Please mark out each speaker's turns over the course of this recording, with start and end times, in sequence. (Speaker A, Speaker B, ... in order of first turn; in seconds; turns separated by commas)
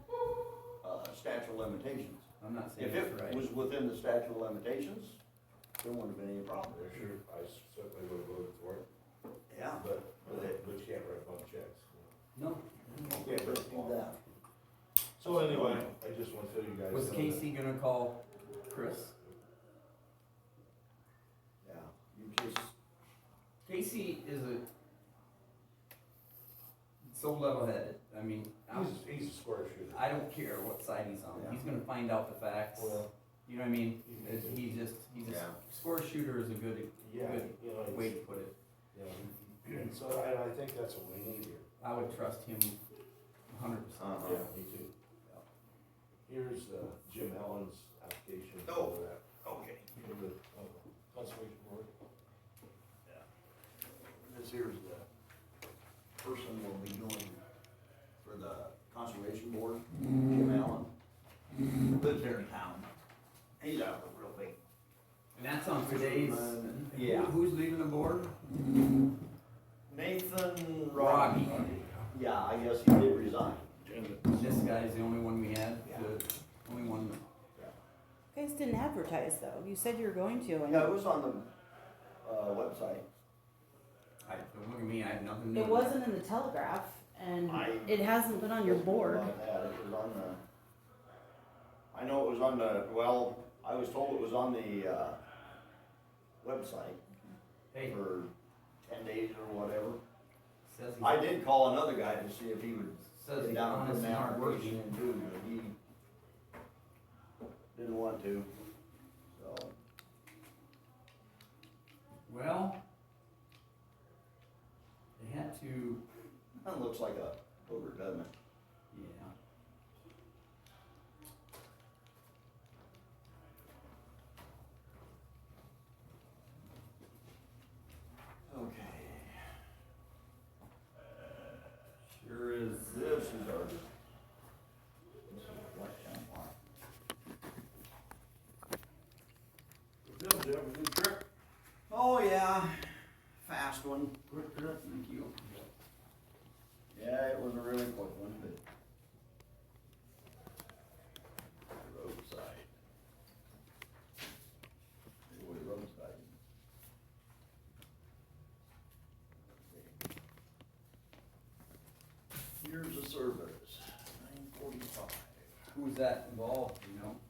Speaker A: 0.8-2.2, Speaker B: 2.4-3.5, Speaker A: 2.8-5.2, Speaker A: 5.8-6.8, Speaker C: 6.7-8.9, Speaker A: 9.5-10.3, Speaker C: 9.8-12.1, Speaker B: 12.3-12.7, Speaker A: 12.9-14.2, Speaker C: 13.0-14.0, Speaker C: 15.2-17.5, Speaker A: 15.2-15.9, Speaker B: 16.9-19.1, Speaker A: 21.6-22.7, Speaker B: 23.6-24.7, Speaker B: 27.0-29.0, Speaker C: 28.7-30.1, Speaker B: 29.9-38.5, Speaker A: 31.3-31.6, Speaker C: 32.7-33.1, Speaker C: 34.0-34.7, Speaker A: 35.2-35.6, Speaker C: 37.0-38.2, Speaker C: 38.9-41.7, Speaker B: 41.8-42.8, Speaker B: 43.5-44.5, Speaker A: 44.0-44.4, Speaker C: 44.2-44.9, Speaker C: 46.3-49.2, Speaker A: 48.6-49.9, Speaker C: 49.9-51.9, Speaker A: 54.0-55.0, Speaker A: 56.2-57.4, Speaker A: 58.2-60.9, Speaker A: 61.9-62.9, Speaker A: 63.6-64.6, Speaker B: 65.3-68.3, Speaker A: 65.6-67.3, Speaker A: 69.9-71.5, Speaker B: 70.9-71.7, Speaker C: 71.4-72.0, Speaker A: 72.1-73.7, Speaker C: 73.8-74.6, Speaker B: 74.3-77.2, Speaker A: 75.8-76.1, Speaker D: 78.3-80.9, Speaker A: 80.7-81.5, Speaker A: 82.2-83.0, Speaker B: 84.2-86.0, Speaker D: 85.5-89.3, Speaker A: 87.4-90.4, Speaker A: 91.9-95.2, Speaker A: 96.4-97.0, Speaker B: 97.7-98.0, Speaker A: 97.8-98.3, Speaker A: 98.8-100.0, Speaker B: 100.7-101.2, Speaker A: 101.0-105.8, Speaker B: 103.1-104.8, Speaker A: 107.7-108.5, Speaker A: 109.3-109.7, Speaker B: 112.3-112.8, Speaker B: 115.2-116.0, Speaker A: 116.6-118.3, Speaker B: 118.9-119.3, Speaker A: 128.5-129.5, Speaker B: 132.1-132.9, Speaker A: 132.8-133.9, Speaker A: 135.3-136.5, Speaker C: 140.0-141.2, Speaker A: 141.9-144.3, Speaker B: 144.3-145.7, Speaker A: 146.9-148.6, Speaker A: 151.7-152.7, Speaker A: 155.3-156.4, Speaker A: 159.7-160.0, Speaker A: 162.6-165.5, Speaker B: 165.7-167.2